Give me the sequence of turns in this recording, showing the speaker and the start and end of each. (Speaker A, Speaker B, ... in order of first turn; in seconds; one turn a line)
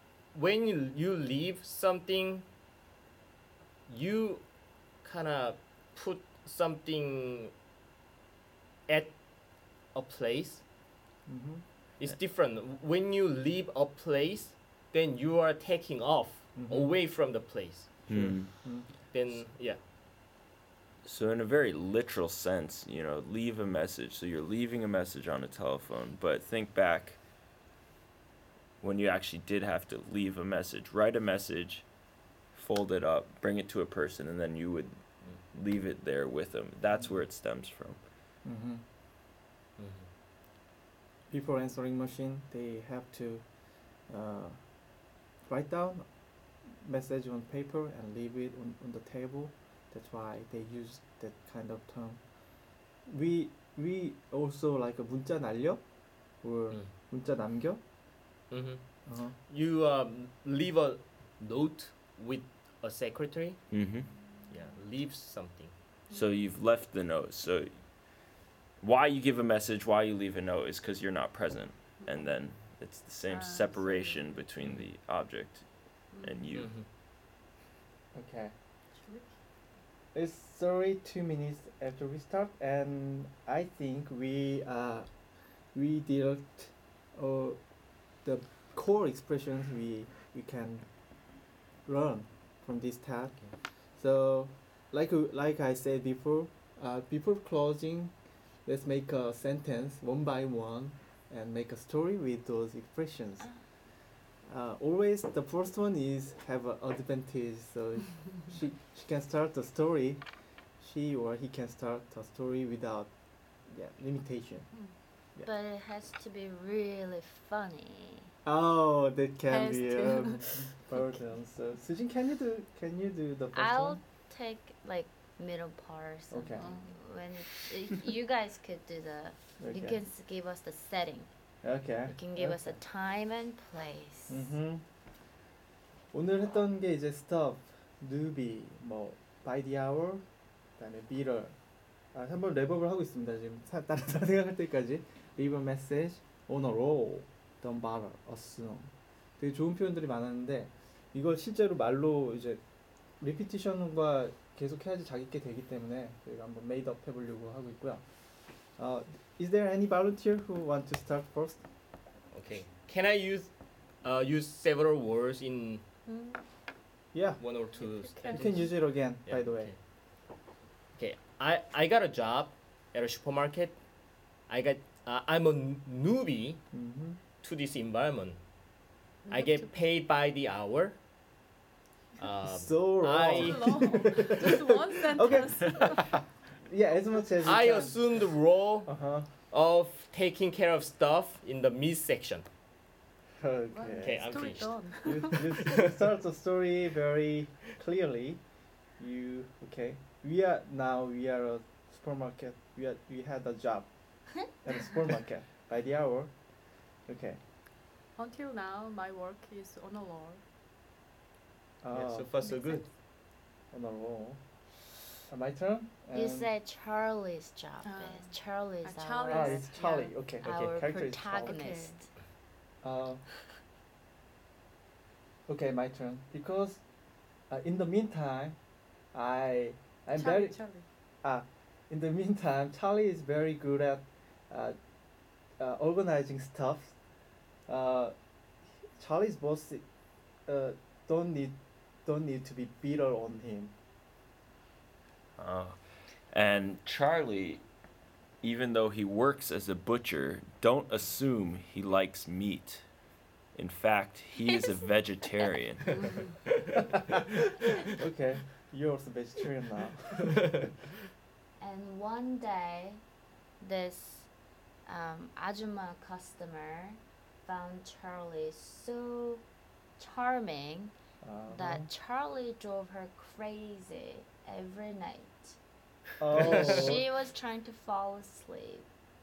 Speaker A: 0.3-2.5
Speaker A: 3.9-7.5
Speaker A: 8.9-10.6
Speaker B: 11.2-11.6
Speaker A: 12.0-18.1
Speaker B: 16.6-17.0
Speaker B: 18.0-18.9
Speaker C: 18.1-18.9
Speaker A: 18.9-19.8
Speaker C: 21.0-27.2
Speaker C: 28.8-31.9
Speaker C: 32.5-38.0
Speaker B: 38.4-38.8
Speaker A: 39.8-40.1
Speaker B: 41.3-52.3
Speaker B: 52.9-57.8
Speaker A: 58.5-63.7
Speaker B: 59.0-59.4
Speaker C: 63.7-64.2
Speaker A: 64.5-65.7
Speaker C: 66.1-67.9
Speaker C: 68.8-76.7
Speaker D: 72.0-72.3
Speaker D: 73.3-74.3
Speaker D: 76.1-76.5
Speaker A: 76.5-76.8
Speaker B: 78.1-78.5
Speaker D: 78.9-79.3
Speaker B: 80.1-103.7
Speaker B: 104.4-115.5
Speaker E: 115.4-118.3
Speaker B: 118.4-124.0
Speaker D: 119.5-120.7
Speaker E: 123.5-131.3
Speaker B: 126.3-126.7
Speaker D: 126.6-127.0
Speaker B: 129.6-130.0
Speaker B: 131.6-132.8
Speaker E: 132.1-134.4
Speaker B: 134.3-134.8
Speaker B: 136.1-141.5
Speaker B: 142.1-152.6
Speaker B: 153.2-158.1
Speaker B: 158.7-161.6
Speaker A: 162.3-165.8
Speaker D: 166.1-166.4
Speaker B: 167.1-167.4
Speaker A: 167.4-169.8
Speaker D: 167.8-168.7
Speaker B: 168.3-169.7
Speaker A: 170.9-173.8
Speaker A: 174.4-176.6
Speaker B: 176.7-177.2
Speaker A: 177.4-178.4
Speaker A: 179.3-180.9
Speaker D: 179.3-179.7
Speaker A: 182.2-184.3
Speaker B: 182.4-188.2
Speaker D: 183.4-186.1
Speaker A: 187.4-192.4
Speaker B: 188.8-189.3
Speaker B: 193.4-198.4
Speaker D: 193.7-195.7
Speaker A: 194.0-196.0
Speaker B: 198.9-207.4
Speaker D: 208.1-210.4
Speaker B: 211.8-212.3
Speaker A: 211.9-212.9
Speaker D: 212.4-212.8
Speaker B: 213.7-214.4
Speaker B: 215.2-216.5
Speaker E: 216.1-219.8
Speaker D: 217.8-220.1
Speaker B: 219.3-221.6
Speaker E: 220.4-222.1
Speaker D: 221.4-222.0
Speaker B: 222.8-223.3
Speaker B: 225.4-226.8
Speaker B: 227.4-228.6
Speaker B: 229.1-234.8
Speaker D: 230.1-230.8
Speaker B: 235.5-237.0
Speaker B: 237.7-238.2
Speaker B: 238.7-239.8
Speaker B: 240.4-243.7
Speaker C: 245.4-247.6
Speaker C: 248.4-252.9
Speaker C: 253.5-256.3
Speaker E: 254.4-255.5
Speaker B: 257.9-260.7
Speaker E: 261.6-263.0
Speaker E: 263.6-264.3
Speaker E: 264.8-269.4
Speaker E: 270.0-270.9
Speaker B: 271.2-271.9
Speaker E: 271.5-275.6
Speaker B: 276.2-277.1
Speaker E: 276.3-278.9